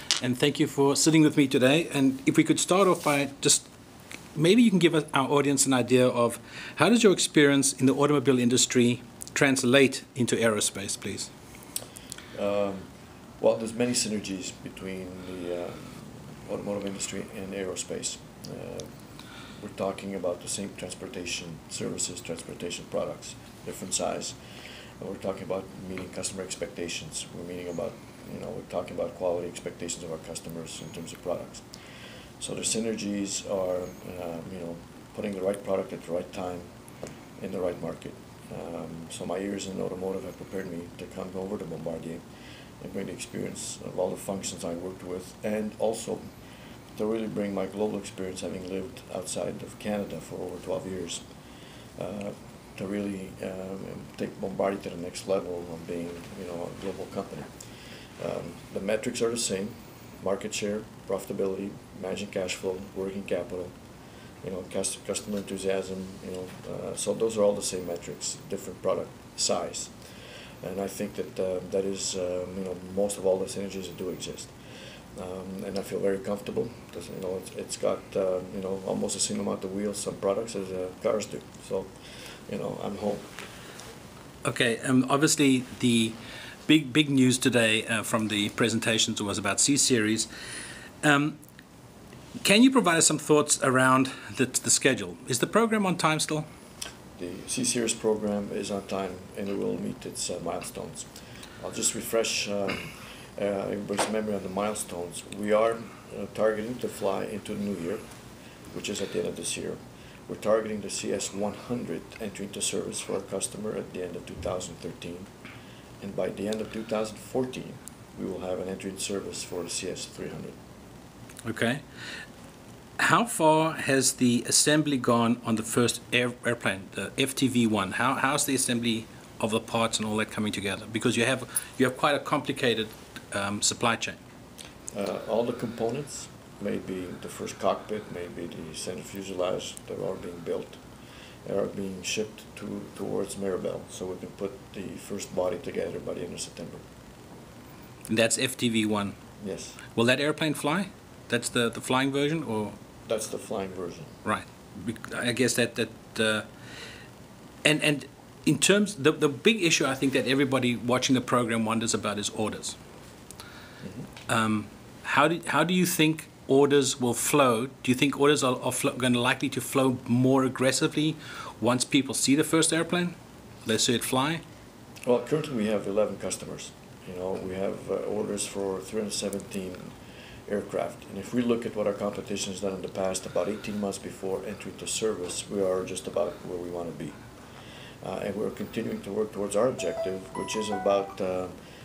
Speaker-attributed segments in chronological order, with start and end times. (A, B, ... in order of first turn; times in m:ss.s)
0:00.2-0:03.7 A
0:04.4-0:11.3 A
0:12.4-0:12.8 B
0:13.4-0:18.9 B
0:19.5-0:24.4 B
0:25.0-0:31.7 B
0:32.4-0:36.7 B
0:37.4-0:42.2 B
0:42.8-0:46.2 B
0:47.0-0:51.2 B
0:52.0-0:57.5 B
0:58.2-1:03.7 B
1:04.4-1:09.9 B
1:10.6-1:14.5 B
1:15.2-1:21.9 B
1:22.5-1:23.3 B
1:24.4-1:30.3 A
1:31.0-1:31.4 A
1:32.4-1:36.5 A
1:37.2-1:41.1 B
1:41.6-1:48.0 B
1:48.7-1:55.3 B
1:56.0-2:00.6 B
2:01.4-2:01.8 A
2:03.0-2:14.2 A
2:14.9-2:20.8 B
2:21.4-2:26.8 B
2:28.1-2:29.2 A
2:29.4-2:29.8 B
2:29.9-2:32.8 A
2:33.1-2:34.1 B
2:34.2-2:36.5 A
2:37.6-2:42.8 A
2:43.8-2:44.1 B
2:44.3-2:54.4 A
2:55.1-3:00.0 B
3:00.5-3:07.2 B
3:08.0-3:11.5 B